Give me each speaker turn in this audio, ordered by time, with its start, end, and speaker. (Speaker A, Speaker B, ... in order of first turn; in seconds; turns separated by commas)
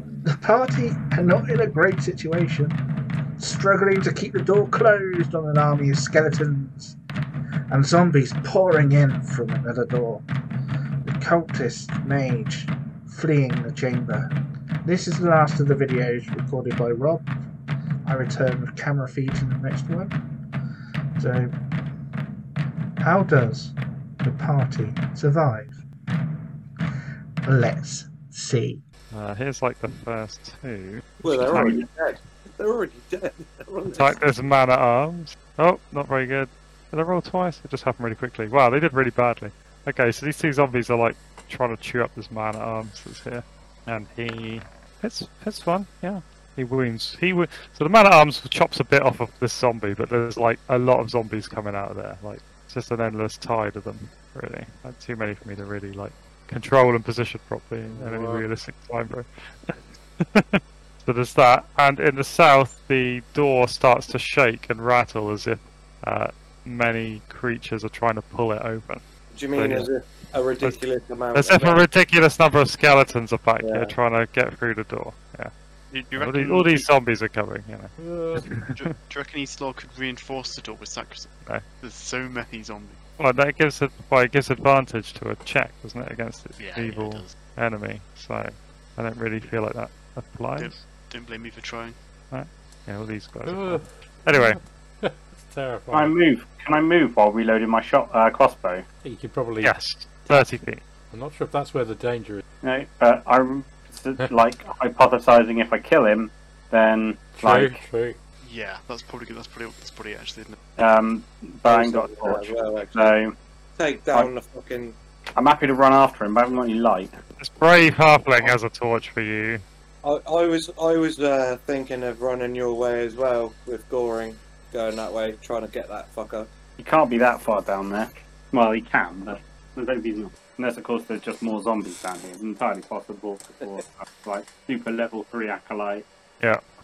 Speaker A: 0.3-2.8, Speaker A: 3.4-7.0, Speaker A: 7.7-10.3, Speaker A: 11.0-14.3, Speaker A: 14.8-17.3, Speaker A: 18.1-20.2, Speaker A: 21.2-21.5, Speaker A: 23.0-25.8, Speaker A: 27.5-28.8, Speaker B: 29.1-31.9, Speaker C: 31.2-34.3, Speaker D: 31.5-31.8, Speaker B: 33.9-69.0, Speaker E: 57.9-58.5, Speaker C: 69.3-71.8, Speaker B: 69.5-69.9, Speaker B: 71.3-75.5, Speaker C: 73.6-73.9, Speaker F: 75.9-76.9, Speaker B: 76.2-79.0, Speaker E: 78.0-78.5, Speaker F: 78.7-83.0, Speaker B: 83.2-90.9, Speaker F: 86.6-87.4, Speaker F: 90.6-92.0, Speaker B: 92.3-94.6, Speaker E: 93.5-96.2, Speaker D: 95.9-98.8, Speaker E: 99.0-99.7, Speaker B: 99.6-100.8, Speaker E: 101.1-102.4, Speaker D: 102.6-107.8, Speaker E: 107.4-108.2, Speaker F: 108.4-110.6, Speaker D: 110.8-113.3, Speaker C: 111.7-113.2, Speaker C: 113.8-115.0, Speaker D: 115.3-117.2, Speaker B: 117.4-119.6, Speaker C: 120.0-126.5, Speaker D: 126.8-136.1